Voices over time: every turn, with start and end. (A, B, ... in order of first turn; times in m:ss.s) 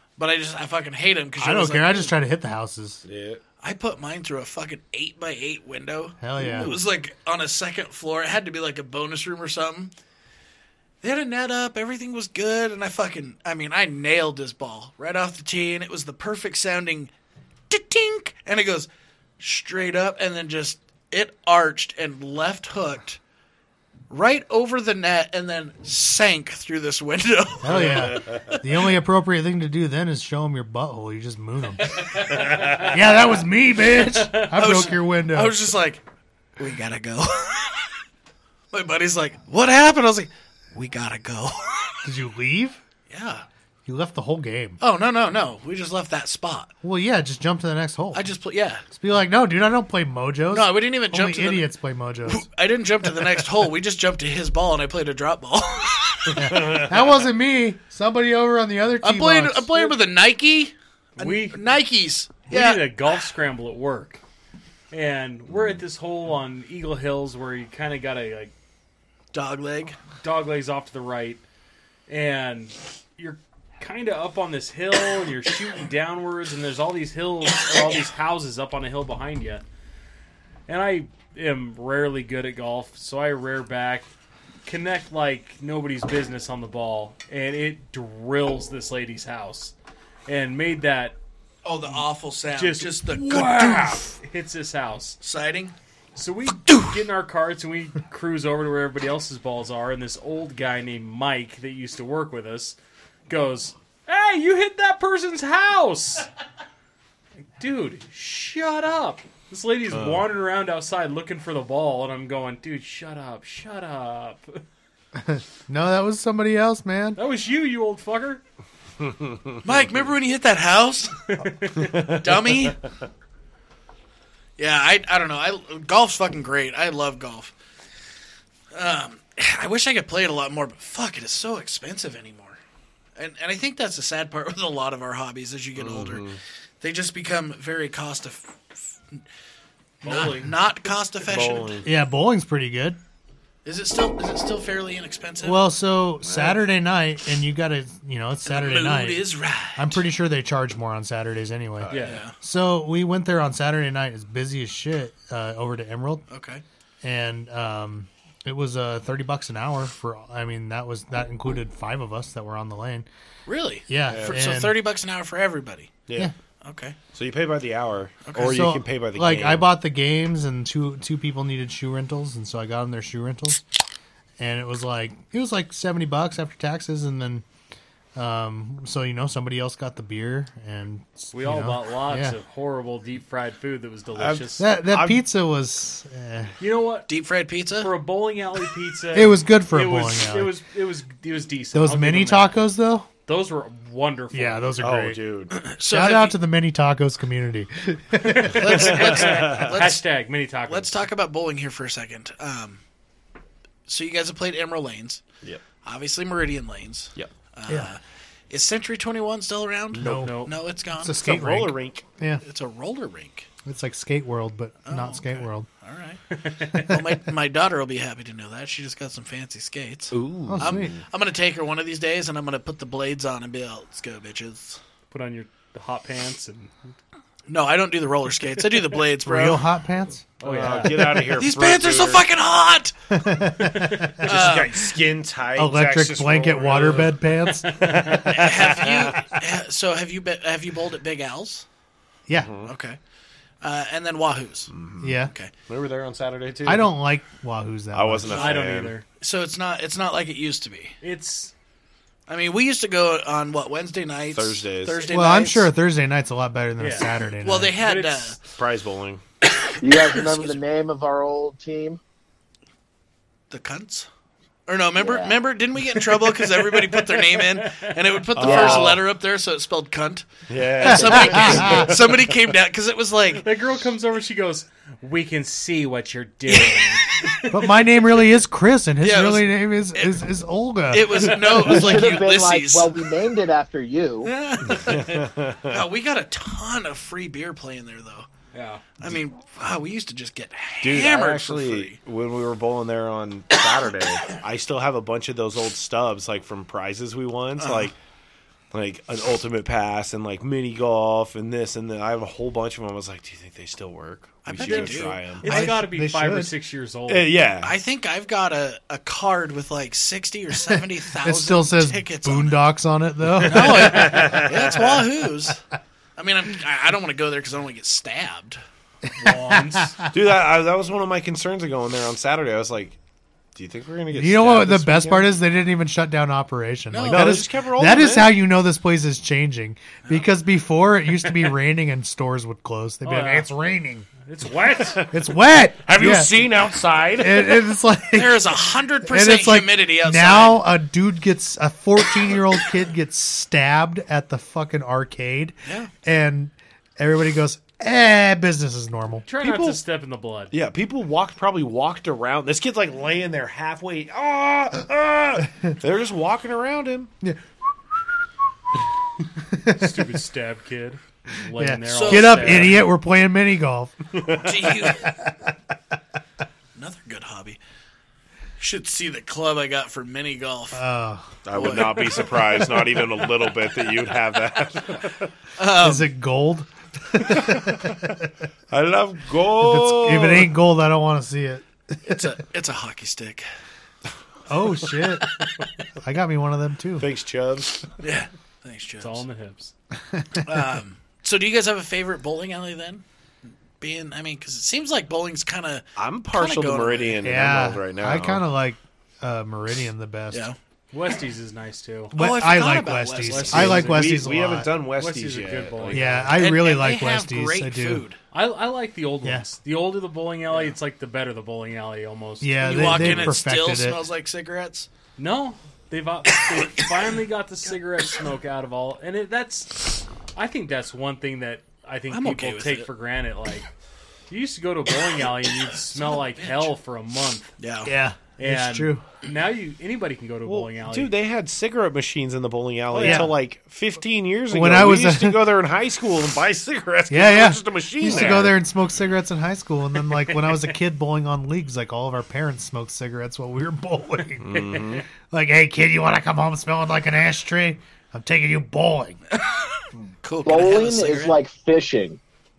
0:00.2-0:02.1 A
0:01.4-0:03.0 B
0:03.0-0:03.4 C
0:03.6-0:09.9 A
0:06.2-0:06.8 B
0:11.0-0:17.1 A
0:17.7-0:18.9 A
0:19.4-0:23.2 A
0:24.1-0:28.6 A
0:27.6-0:32.1 B
0:32.3-0:32.9 D
0:32.5-0:32.9 C
0:32.7-0:35.7 B
0:34.5-0:36.0 A
0:36.6-0:38.0 A
0:38.7-0:42.0 A
0:42.0-0:42.8 B
0:43.1-0:43.4 A
0:43.8-0:44.8 B
0:44.8-0:46.7 A
0:46.8-0:48.2 B
0:48.1-0:48.8 A
0:48.9-0:52.5 B
0:50.5-0:51.7 A
0:52.2-0:56.5 A
0:56.4-1:00.0 B
0:56.5-0:56.9 C
0:59.0-1:02.9 A
1:01.2-1:01.7 D
1:02.5-1:04.2 D
1:04.9-1:08.5 D
1:09.3-1:10.0 A
1:10.2-1:11.4 D
1:12.1-1:19.6 D
1:20.7-1:24.1 D
1:24.6-1:29.7 D
1:30.3-1:31.2 D
1:31.6-1:34.1 A
1:32.5-1:35.2 D
1:35.2-1:35.7 A
1:36.1-1:42.8 D
1:36.6-1:37.0 A
1:43.3-1:46.3 D
1:47.6-1:54.6 D
1:49.9-1:50.3 C
1:55.1-1:57.2 B
1:57.2-1:58.4 D
1:59.0-1:59.7 C
1:59.6-2:01.3 A
2:01.3-2:02.0 D
2:01.8-2:02.2 C
2:02.0-2:02.8 A
2:04.6-2:07.5 A
2:08.7-2:12.6 A
2:13.2-2:16.3 A
2:15.8-2:16.4 C
2:16.8-2:19.2 A
2:20.0-2:21.8 A
2:20.0-2:20.4 D
2:21.2-2:21.9 C
2:21.8-2:23.0 B
2:23.6-2:25.6 A
2:25.4-2:36.2 B
2:26.2-2:26.6 C
2:28.4-2:30.0 A
2:31.8-2:32.2 C
2:31.9-2:32.2 D
2:32.0-2:32.3 A
2:36.3-2:36.6 A
2:37.0-2:43.1 B
2:43.4-2:46.0 A
2:43.9-2:44.8 B
2:44.1-2:44.4 C
2:46.1-2:46.3 C
2:46.6-2:47.0 A
2:47.1-2:49.6 C
2:48.2-2:48.7 A
2:48.4-2:53.6 B
2:54.4-2:57.4 B
2:58.2-3:02.4 B
3:01.3-3:04.7 D
3:04.2-3:05.2 C
3:04.6-3:06.6 B
3:06.6-3:07.1 D
3:07.1-3:07.9 A
3:07.8-3:12.6 D
3:09.1-3:10.6 B
3:11.7-3:13.1 B
3:13.3-3:14.8 D
3:14.3-3:15.2 B
3:14.8-3:15.5 C
3:15.5-3:16.4 A
3:15.9-3:18.7 B
3:18.2-3:21.0 D
3:18.5-3:20.1 A
3:18.7-3:19.8 C
3:20.7-3:22.8 A
3:23.9-3:25.2 A
3:25.8-3:31.3 A
3:29.9-3:30.4 B
3:30.0-3:30.3 C
3:30.2-3:30.5 D
3:31.0-3:32.4 B
3:31.1-3:32.1 C
3:32.4-3:33.5 A
3:33.6-3:35.7 B
3:34.8-3:44.8 A
3:36.3-3:36.9 D
3:40.1-3:41.0 C
3:40.5-3:41.0 B
3:45.1-3:46.7 D
3:47.5-3:49.6 A
3:49.2-3:50.3 B
3:50.4-3:51.3 D
3:50.4-3:52.2 C
3:51.3-3:52.9 A
3:53.1-3:54.1 B
3:53.6-3:54.3 D
3:54.2-3:57.2 C
3:54.2-3:55.0 A
3:55.6-3:58.5 B
3:57.4-3:58.3 D
3:58.0-3:59.3 C
3:58.3-4:01.6 A
4:02.3-4:02.7 C
4:02.6-4:03.0 A
4:03.6-4:05.5 A
4:04.7-4:06.9 C
4:05.0-4:05.3 B
4:06.6-4:08.5 B
4:07.9-4:09.0 C
4:08.3-4:09.0 D
4:09.1-4:11.0 A
4:11.0-4:11.5 D
4:12.3-4:15.7 A
4:14.3-4:15.0 C
4:15.0-4:17.8 B
4:16.8-4:17.1 D
4:17.4-4:18.4 A
4:17.8-4:18.4 D
4:18.5-4:19.2 C
4:19.8-4:22.0 E
4:19.9-4:20.6 A
4:23.5-4:24.1 A
4:24.7-4:33.4 A
4:25.0-4:25.4 E
4:27.4-4:27.9 D
4:28.3-4:29.0 C
4:28.4-4:28.8 E
4:30.5-4:32.2 C
4:30.9-4:31.9 E
4:31.0-4:31.9 B
4:33.4-4:37.5 D
4:36.5-4:37.5 A
4:37.5-4:41.9 B
4:39.0-4:40.3 A
4:40.9-4:43.2 A
4:41.6-4:44.3 E
4:44.2-4:48.3 A
4:44.6-4:45.8 C
4:48.5-4:48.8 D
4:49.0-4:52.0 A
4:50.8-4:58.0 C
4:57.6-4:57.9 A
4:58.7-5:05.7 C
5:04.4-5:05.7 A
5:04.6-5:07.3 D
5:05.4-5:06.5 B
5:07.1-5:07.8 C
5:07.6-5:12.6 A
5:11.2-5:14.4 B
5:13.4-5:15.6 A
5:13.8-5:14.9 C
5:16.2-5:18.6 A
5:19.2-5:20.0 D
5:19.2-5:20.1 B
5:20.1-5:23.0 C
5:23.5-5:25.3 C
5:24.1-5:34.1 B
5:26.9-5:27.4 A
5:27.0-5:28.3 C
5:33.0-5:33.5 D
5:34.2-5:35.0 D
5:35.1-5:36.4 B
5:35.8-5:37.6 C
5:37.2-5:49.2 B
5:38.1-5:40.6 A
5:45.6-5:45.9 A
5:49.2-5:50.5 D
5:49.4-5:49.8 C
5:50.5-5:57.1 C
5:59.3-6:00.2 B
5:59.7-6:02.8 D
6:01.5-6:05.5 B
6:01.9-6:02.7 A
6:04.1-6:04.5 C
6:04.4-6:05.1 A
6:06.7-6:07.6 A
6:08.6-6:10.8 A
6:10.7-6:11.4 B
6:11.4-6:15.3 C
6:11.5-6:13.5 A
6:15.6-6:16.1 A
6:15.8-6:18.3 B
6:17.2-6:17.9 C
6:18.7-6:20.5 C
6:19.6-6:21.6 B
6:22.0-6:23.4 A
6:24.5-6:25.3 B
6:25.9-6:27.1 B
6:27.0-6:27.9 C
6:28.0-6:29.2 A
6:29.0-6:29.7 D
6:30.1-6:30.5 B
6:30.4-6:33.0 A
6:33.8-6:37.2 A
6:36.0-6:38.4 C
6:37.2-6:40.4 B
6:40.3-6:40.6 A
6:40.9-6:42.1 D
6:42.1-6:44.7 B
6:42.1-6:43.8 A
6:43.2-6:44.2 D
6:43.5-6:46.2 C
6:45.0-6:46.4 D
6:45.9-6:48.0 B
6:46.3-6:48.2 A
6:48.3-6:53.3 D
6:52.4-6:54.0 B
6:52.6-6:54.9 A
6:55.2-7:03.7 D
7:02.1-7:02.9 A
7:04.3-7:07.5 D
7:05.9-7:06.7 A
7:07.6-7:07.9 A
7:07.8-7:09.0 B
7:08.4-7:11.1 D
7:10.4-7:18.5 C
7:12.9-7:13.4 B
7:13.0-7:13.3 D
7:14.5-7:15.4 B
7:17.1-7:29.2 B
7:18.1-7:18.5 D
7:24.4-7:25.0 C
7:24.5-7:25.0 D
7:29.3-7:31.4 A
7:30.4-7:32.2 E